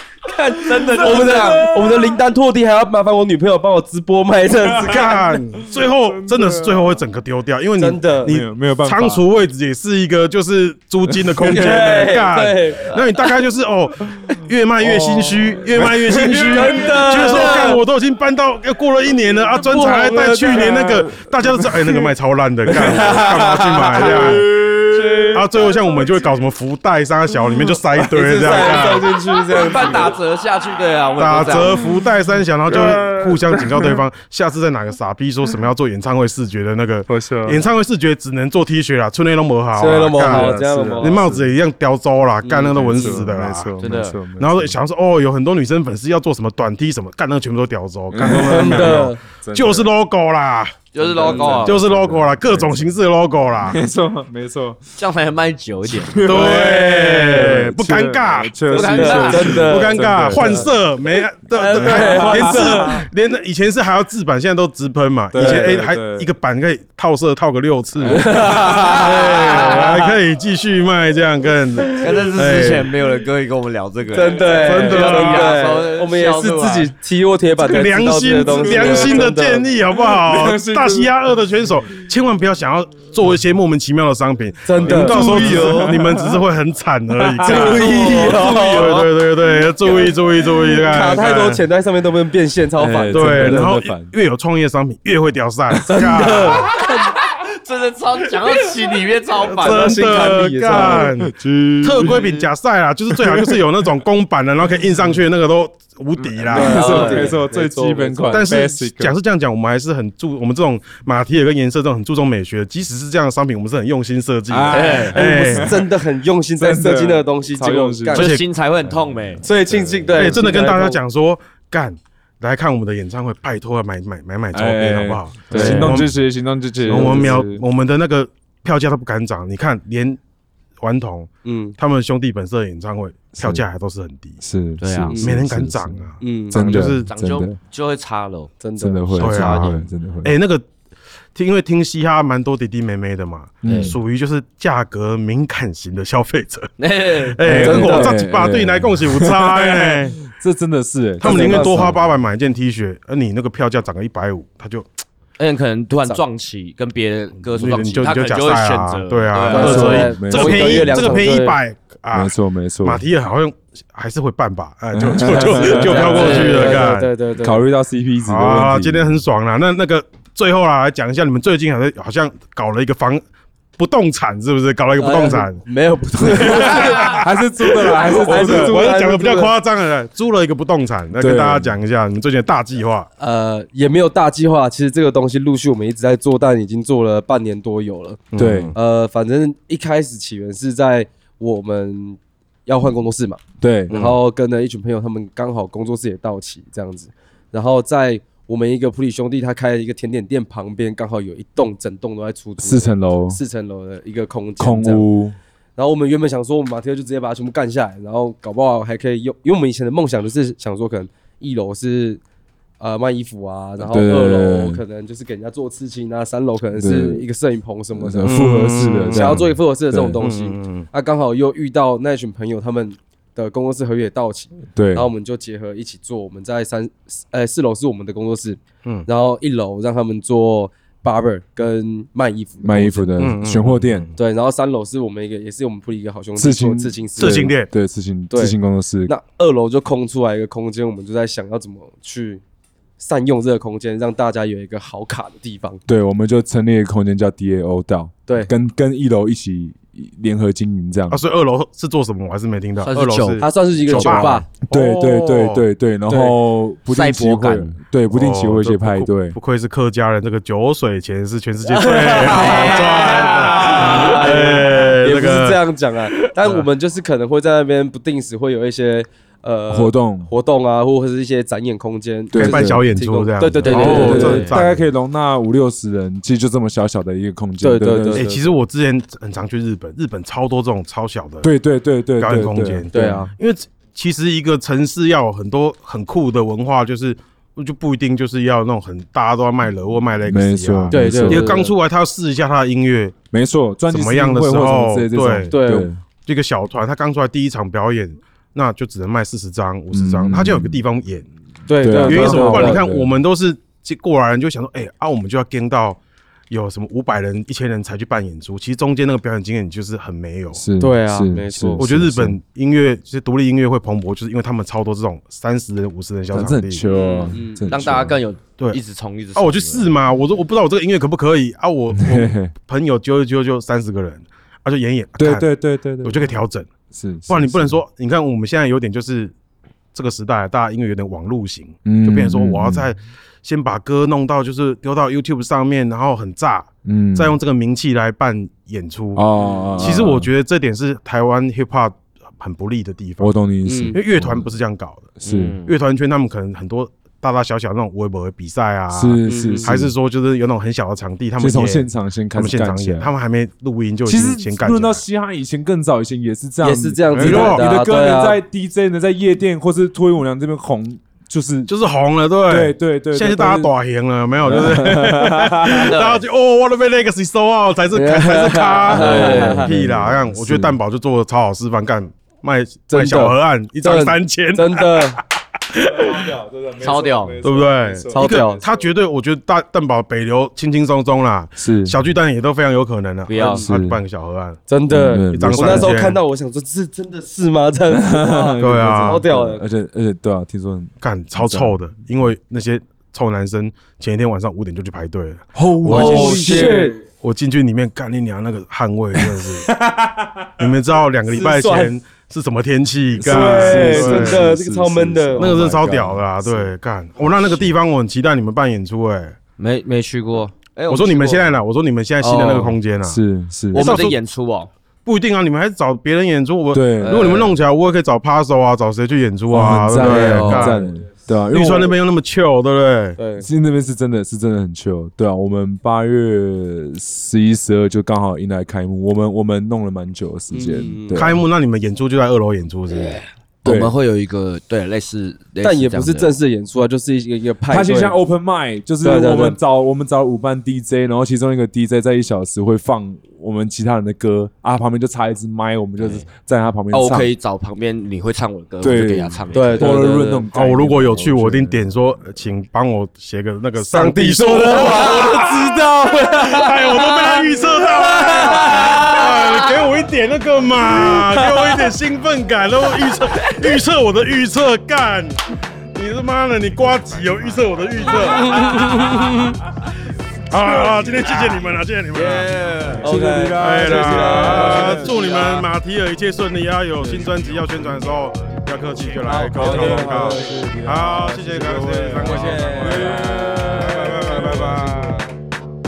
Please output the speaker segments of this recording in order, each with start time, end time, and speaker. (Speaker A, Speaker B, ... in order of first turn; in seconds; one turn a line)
Speaker A: 0.2-5.1
Speaker B: 0.6-1.6
Speaker C: 0.7-2.2
Speaker C: 4.6-7.0
Speaker D: 4.7-24.5
Speaker A: 7.8-8.3
Speaker C: 8.2-9.2
Speaker C: 11.1-11.8
Speaker A: 11.4-13.0
Speaker C: 14.9-17.4
Speaker A: 15.0-15.3
Speaker A: 16.2-17.8
Speaker C: 19.6-22.1
Speaker A: 19.7-20.7
Speaker B: 22.8-24.4
Speaker C: 23.9-25.4
Speaker A: 24.9-25.4
Speaker D: 25.3-29.1
Speaker A: 28.0-30.1
Speaker C: 28.8-29.0
Speaker B: 29.5-31.8
Speaker D: 31.2-43.7
Speaker C: 31.6-32.0
Speaker C: 32.7-34.0
Speaker C: 37.1-37.6
Speaker A: 39.8-41.3
Speaker C: 40.2-41.4
Speaker A: 42.4-43.2
Speaker C: 42.7-44.7
Speaker B: 43.8-44.2
Speaker D: 44.4-50.8
Speaker C: 48.1-49.9
Speaker A: 48.3-49.2
Speaker B: 50.9-51.9
Speaker C: 51.0-52.9
Speaker A: 51.3-51.6
Speaker D: 51.5-53.8
Speaker C: 53.6-54.8
Speaker B: 55.0-56.2
Speaker C: 55.9-56.6
Speaker D: 56.2-72.9
Speaker A: 56.3-57.7
Speaker C: 57.3-60.8
Speaker B: 58.7-59.7
Speaker A: 58.7-60.6
Speaker A: 61.5-63.0
Speaker C: 61.6-63.0
Speaker C: 65.3-66.3
Speaker A: 65.3-65.8
Speaker A: 68.0-70.1
Speaker B: 68.4-70.1
Speaker B: 72.0-76.9
Speaker A: 74.1-79.7
Speaker D: 74.5-75.5
Speaker D: 77.6-91.6
Speaker C: 78.2-79.3
Speaker C: 79.9-81.1
Speaker A: 84.6-85.6
Speaker C: 84.8-86.4
Speaker B: 85.4-85.8
Speaker C: 87.2-87.9
Speaker A: 87.4-89.0
Speaker B: 87.5-89.1
Speaker C: 90.4-91.1
Speaker A: 90.8-93.7
Speaker C: 92.8-94.1
Speaker D: 93.1-96.8
Speaker C: 95.7-96.6
Speaker A: 95.9-97.1
Speaker B: 97.3-100.5
Speaker D: 99.5-107.3
Speaker A: 99.5-101.1
Speaker C: 100.7-102.2
Speaker B: 102.0-102.5
Speaker C: 103.1-103.6
Speaker B: 106.2-107.2
Speaker C: 106.5-109.1
Speaker A: 106.5-108.6
Speaker D: 108.3-115.8
Speaker C: 114.5-115.9
Speaker B: 114.7-115.2
Speaker A: 115.1-118.3
Speaker C: 116.6-118.3
Speaker B: 118.1-119.4
Speaker D: 118.1-118.4
Speaker C: 118.8-120.7
Speaker A: 119.4-121.0
Speaker D: 120.1-126.2
Speaker C: 124.5-127.6
Speaker A: 125.5-126.0
Speaker D: 126.8-130.2
Speaker A: 126.9-127.4
Speaker D: 130.8-134.4
Speaker A: 131.4-131.8
Speaker C: 133.3-133.6
Speaker C: 134.4-137.6
Speaker B: 134.8-135.2
Speaker A: 135.1-135.4
Speaker D: 135.2-137.1
Speaker A: 136.2-136.6
Speaker B: 136.6-138.5
Speaker A: 138.6-139.0
Speaker C: 138.8-140.3
Speaker B: 139.1-139.8
Speaker D: 139.2-140.7
Speaker D: 141.3-150.2
Speaker C: 143.6-144.0
Speaker B: 143.6-143.9
Speaker B: 146.8-147.9
Speaker C: 147.4-152.0
Speaker A: 147.5-148.2
Speaker A: 151.2-152.0
Speaker D: 151.2-154.9
Speaker B: 155.4-160.1
Speaker D: 157.5-162.3
Speaker A: 159.5-161.6
Speaker C: 159.5-161.3
Speaker C: 162.1-163.0
Speaker D: 162.8-167.1
Speaker C: 164.9-166.5
Speaker A: 165.3-167.6
Speaker B: 165.9-166.8
Speaker C: 167.4-169.2
Speaker D: 168.2-173.2
Speaker D: 173.8-175.6
Speaker A: 175.0-177.2
Speaker D: 176.2-183.1
Speaker C: 176.4-179.0
Speaker A: 177.8-179.5
Speaker C: 181.2-181.8
Speaker A: 183.2-188.2
Speaker D: 188.3-188.8
Speaker C: 188.3-188.7
Speaker A: 188.7-205.1
Speaker C: 193.6-194.1
Speaker D: 193.9-194.2
Speaker C: 202.6-203.4
Speaker C: 204.6-205.3
Speaker A: 205.8-212.2
Speaker A: 212.8-233.1
Speaker C: 213.8-214.8
Speaker C: 216.8-217.2
Speaker C: 217.9-220.2
Speaker D: 218.2-219.5
Speaker D: 220.2-220.9
Speaker C: 224.7-225.1
Speaker C: 232.6-234.1
Speaker D: 233.2-234.1
Speaker A: 234.2-237.5
Speaker C: 236.4-239.1
Speaker D: 237.2-237.7
Speaker A: 238.3-242.4
Speaker A: 243.0-245.8
Speaker C: 245.8-251.2
Speaker D: 251.1-255.7
Speaker B: 252.8-254.4
Speaker A: 253.4-254.5
Speaker C: 254.7-259.4
Speaker A: 256.1-256.4
Speaker B: 256.9-257.8
Speaker D: 258.1-265.6
Speaker A: 261.6-274.6
Speaker B: 262.0-265.0
Speaker C: 269.7-270.3
Speaker C: 272.3-272.9
Speaker D: 272.3-274.8
Speaker C: 273.6-278.2
Speaker B: 273.6-274.6
Speaker A: 277.6-278.5
Speaker D: 278.1-281.5
Speaker C: 281.4-282.9
Speaker D: 282.2-293.1
Speaker A: 282.9-283.3
Speaker C: 290.3-291.5
Speaker A: 290.9-291.7
Speaker C: 293.3-296.0
Speaker D: 293.9-295.5
Speaker A: 295.5-295.9
Speaker D: 296.2-301.3
Speaker C: 299.9-300.8
Speaker A: 301.7-302.8
Speaker C: 301.8-303.1
Speaker D: 302.0-306.0
Speaker D: 306.5-310.6
Speaker C: 310.5-312.4
Speaker A: 310.8-312.0
Speaker D: 311.8-316.8
Speaker C: 316.3-318.2
Speaker B: 316.8-319.9
Speaker A: 317.3-317.7
Speaker D: 319.4-325.5
Speaker C: 321.9-322.5
Speaker C: 325.2-326.3
Speaker D: 326.0-326.7
Speaker C: 326.9-327.8
Speaker D: 327.3-329.3
Speaker D: 329.9-339.2
Speaker C: 331.8-332.9
Speaker C: 336.8-337.4
Speaker C: 339.1-340.3
Speaker B: 339.7-340.0
Speaker D: 339.8-343.3
Speaker C: 343.2-344.5
Speaker A: 343.6-344.0
Speaker D: 343.9-345.1
Speaker C: 345.2-345.6
Speaker B: 345.2-345.7
Speaker D: 345.6-355.0
Speaker C: 348.9-349.9
Speaker A: 349.2-349.7
Speaker C: 351.4-353.1
Speaker C: 354.1-361.7
Speaker A: 356.6-358.4
Speaker D: 357.1-357.7
Speaker D: 361.7-376.3
Speaker C: 362.5-363.7
Speaker C: 364.4-366.0
Speaker A: 367.9-369.7
Speaker B: 368.9-369.5
Speaker C: 368.9-370.8
Speaker A: 372.9-375.2
Speaker C: 375.8-378.9
Speaker B: 376.8-377.4
Speaker D: 377.4-384.6
Speaker A: 378.1-378.6
Speaker C: 381.6-382.0
Speaker B: 383.3-383.6
Speaker A: 383.3-383.7
Speaker C: 383.6-384.0
Speaker A: 384.7-389.6
Speaker C: 384.9-385.9
Speaker D: 385.3-386.2
Speaker C: 387.9-391.8
Speaker D: 388.6-389.2
Speaker D: 391.0-399.7
Speaker C: 395.5-396.9
Speaker A: 395.9-397.0
Speaker C: 399.2-400.5
Speaker D: 400.6-404.5
Speaker A: 401.3-401.9
Speaker C: 403.1-406.7
Speaker A: 403.2-405.7
Speaker D: 405.4-409.4
Speaker B: 409.6-411.5
Speaker D: 410.9-413.2
Speaker B: 412.2-412.8
Speaker C: 413.0-414.0
Speaker B: 413.7-414.7
Speaker D: 413.7-414.2
Speaker D: 415.0-420.9
Speaker C: 416.7-417.4
Speaker B: 417.0-417.6
Speaker C: 419.5-421.9
Speaker A: 420.0-420.9
Speaker D: 421.5-423.2
Speaker A: 423.2-423.5
Speaker C: 423.4-431.3
Speaker A: 430.5-431.4
Speaker D: 431.1-433.2
Speaker C: 433.6-433.9
Speaker B: 433.6-436.3
Speaker A: 435.6-438.1
Speaker C: 437.7-447.3
Speaker A: 439.0-439.6
Speaker B: 446.0-446.3
Speaker B: 446.9-450.2
Speaker C: 448.8-451.9
Speaker A: 449.5-450.5
Speaker D: 450.5-469.6
Speaker A: 453.8-459.4
Speaker A: 468.6-469.3
Speaker D: 470.5-472.5
Speaker C: 470.6-471.2
Speaker B: 472.1-473.1
Speaker C: 473.0-475.2
Speaker A: 473.0-475.5
Speaker D: 473.6-485.2
Speaker B: 474.4-475.6
Speaker C: 477.0-477.5
Speaker B: 479.2-480.4
Speaker A: 479.3-480.3
Speaker C: 479.6-484.8
Speaker A: 482.2-485.2